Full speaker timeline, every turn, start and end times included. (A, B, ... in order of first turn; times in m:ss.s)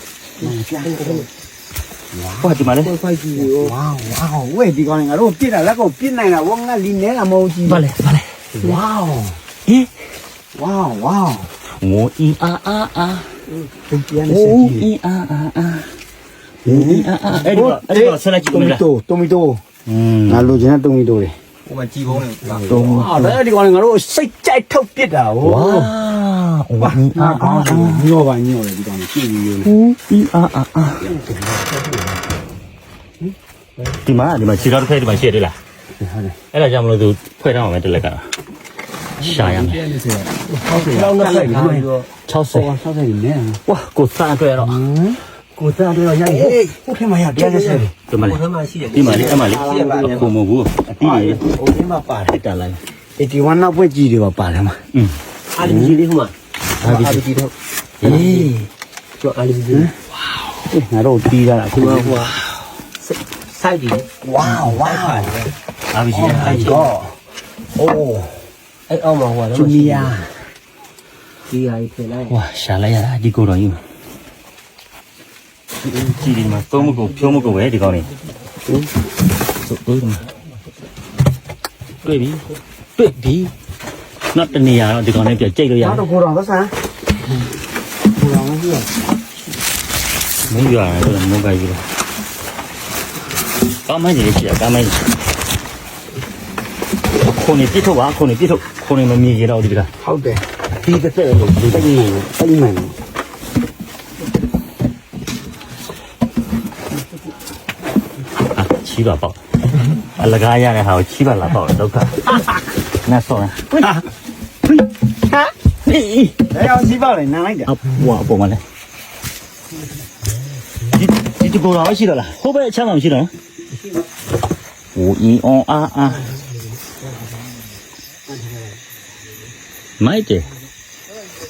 0:00.4-0:01.3 A
0:00.8-0:01.3 B
0:02.1-0:02.7 A
0:02.4-0:02.9 C
0:02.8-0:03.7 B
0:03.3-0:07.9 A
0:07.6-0:08.4 C
0:08.5-0:09.4 A
0:09.6-0:09.9 C
0:10.5-0:11.5 A
0:11.8-0:13.3 C
0:13.9-0:14.9 A
0:14.2-0:15.9 C
0:16.6-0:18.8 C
0:16.6-0:19.6 A
0:19.8-0:20.6 C
0:20.3-0:21.4 A
0:21.6-0:22.9 B
0:22.4-0:25.9 A
0:22.6-0:23.4 C
0:25.4-0:28.1 C
0:26.8-0:29.7 A
0:29.6-0:31.1 C
0:31.0-0:31.8 A
0:33.9-0:35.6 C
0:36.0-0:36.4 A
0:36.5-0:38.2 C
0:39.2-0:40.0 C
0:39.2-0:41.9 A
0:40.5-0:42.1 B
0:42.3-0:42.7 C
0:42.5-0:43.6 A
0:43.6-0:44.9 C
0:44.6-0:45.2 A
0:45.6-0:46.6 B
0:46.0-0:47.9 A
0:47.4-0:50.3 B
0:48.1-0:48.4 C
0:48.9-0:51.4 C
0:49.4-0:50.2 A
0:51.0-0:52.4 A
0:52.2-0:52.8 C
0:53.2-0:54.8 A
0:55.5-0:58.5 B
0:55.6-0:56.0 A
0:56.8-0:57.2 C
0:56.9-0:57.2 A
0:58.0-0:58.7 C
0:59.2-0:59.9 B
1:00.6-1:02.3 A
1:01.7-1:02.4 B
1:03.0-1:05.5 B
1:04.2-1:05.3 A
1:05.9-1:06.9 C
1:06.1-1:07.2 A
1:06.2-1:06.8 B
1:07.8-1:08.4 A
1:08.9-1:10.2 B
1:09.5-1:10.3 A
1:11.5-1:12.4 B
1:12.3-1:13.8 C
1:15.9-1:18.1 C
1:19.6-1:20.2 C
1:22.0-1:22.4 C
1:23.0-1:23.5 C
1:24.3-1:26.0 C
1:25.8-1:26.7 A
1:28.1-1:28.9 A
1:30.5-1:31.8 C
1:33.8-1:35.0 C
1:37.2-1:39.9 C
1:40.0-1:40.4 A
1:40.8-1:42.0 C
1:41.7-1:43.0 A
1:48.5-1:49.4 C
1:50.2-1:52.4 C
1:53.0-1:54.0 C
1:55.8-1:56.4 C
1:56.5-1:57.8 A
1:57.6-1:58.6 C
2:00.9-2:03.3 C
2:04.9-2:06.3 C
2:10.0-2:10.5 C